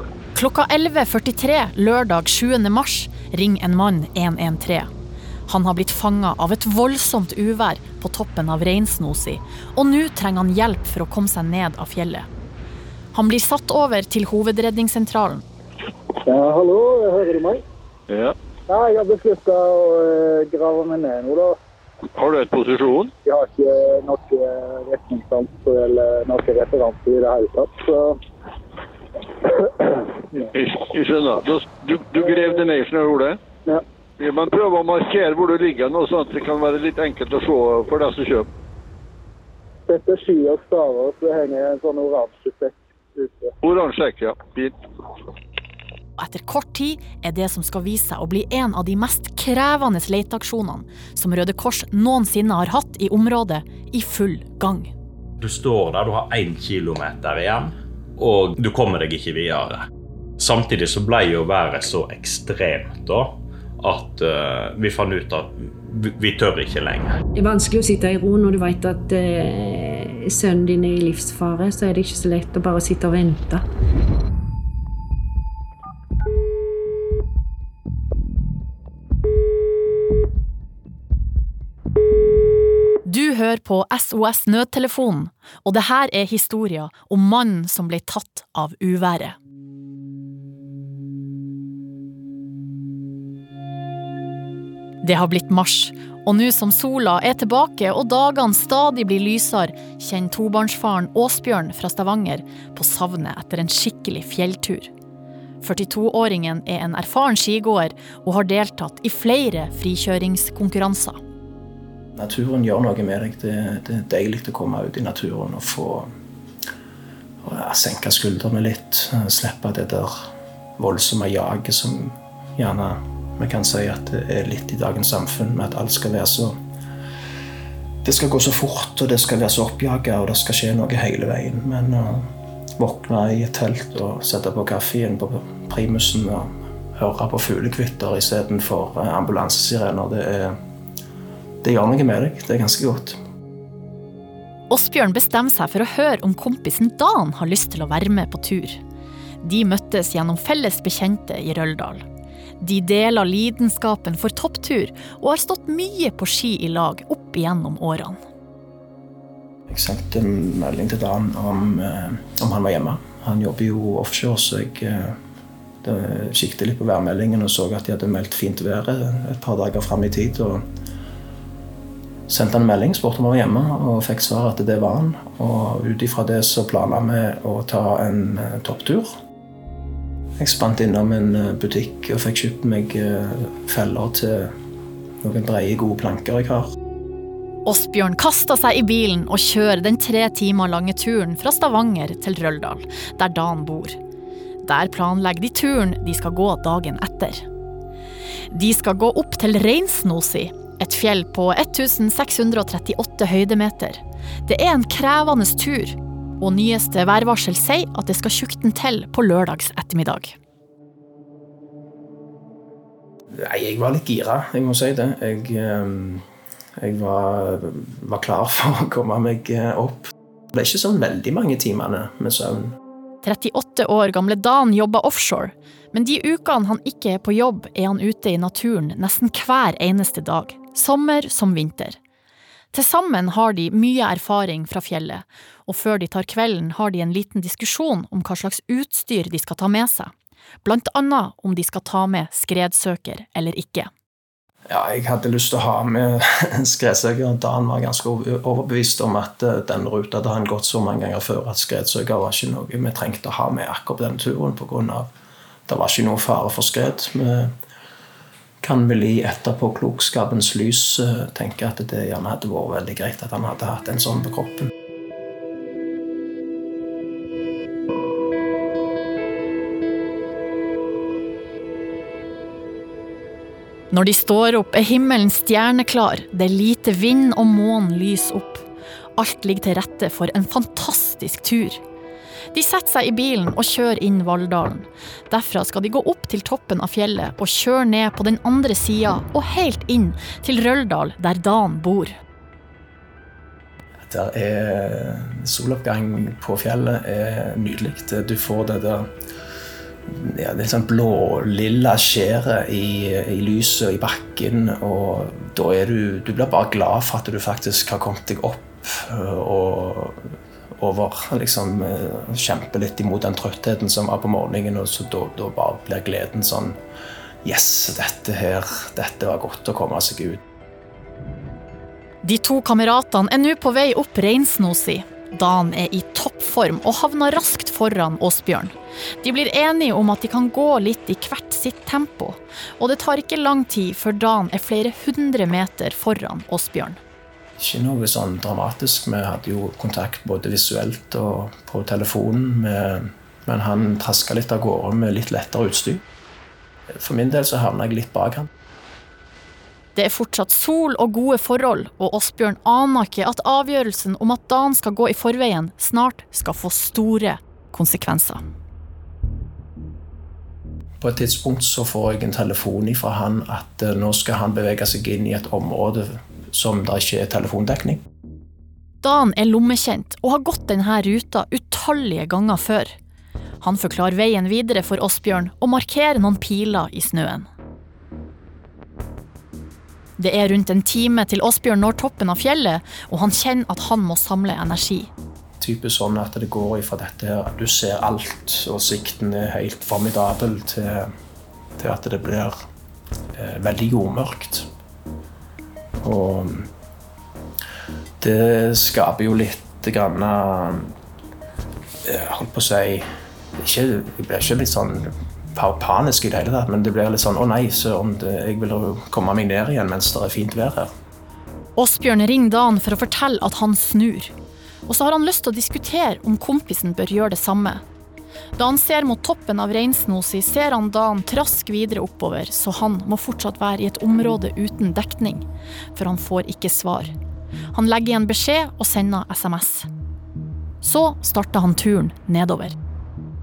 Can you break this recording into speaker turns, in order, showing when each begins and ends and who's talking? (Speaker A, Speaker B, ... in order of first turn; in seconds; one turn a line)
Speaker A: 0.3-4.9
Speaker A: 5.5-12.3
Speaker A: 13.1-15.4
Speaker B: 16.2-17.6
Speaker C: 18.1-18.3
Speaker B: 18.7-21.6
Speaker C: 22.1-23.1
Speaker B: 23.2-28.2
Speaker C: 30.5-33.4
Speaker C: 34.2-38.5
Speaker B: 39.9-43.5
Speaker C: 43.6-44.8
Speaker A: 46.2-54.9
Speaker D: 55.4-59.9
Speaker D: 60.4-67.2
Speaker E: 67.3-73.6
Speaker A: 83.0-89.4
Speaker A: 95.0-104.9
Speaker A: 105.6-111.2
Speaker F: 112.1-116.1
Speaker F: 117.4-120.2
Speaker F: 120.8-126.6
Speaker F: 128.0-140.6
Speaker F: 141.6-143.2
Speaker A: 144.7-148.8
Speaker A: 149.4-152.0
Speaker A: 152.6-158.2
Speaker F: 159.7-165.2
Speaker F: 165.8-170.7
Speaker F: 172.3-179.1
Speaker F: 180.4-184.5
Speaker F: 185.2-186.7
Speaker A: 187.7-194.0
Speaker A: 194.6-197.5
Speaker A: 198.5-210.3
Speaker F: 213.3-216.2
Speaker F: 216.8-222.8
Speaker A: 223.2-232.0
Speaker A: 232.7-240.1
Speaker A: 240.6-243.9
Speaker F: 244.7-255.1
Speaker F: 255.7-257.6
Speaker F: 258.6-264.7
Speaker A: 273.9-278.6
Speaker A: 279.2-281.8
Speaker A: 282.5-292.2
Speaker F: 294.0-299.1
Speaker F: 300.1-316.8
Speaker F: 317.4-320.4
Speaker A: 322.2-337.0
Speaker F: 337.6-346.0
Speaker F: 346.9-348.5
Speaker A: 349.9-358.4
Speaker F: 361.0-368.0
Speaker A: 369.0-372.9
Speaker A: 373.6-377.5
Speaker A: 380.2-385.1
Speaker F: 385.6-391.1
Speaker F: 391.8-392.6
Speaker F: 393.4-394.7
Speaker F: 396.0-396.7
Speaker F: 398.2-400.9
Speaker F: 402.0-410.9
Speaker A: 411.8-414.3
Speaker A: 414.9-417.8
Speaker A: 418.6-427.1
Speaker A: 427.7-429.9
Speaker A: 430.8-432.8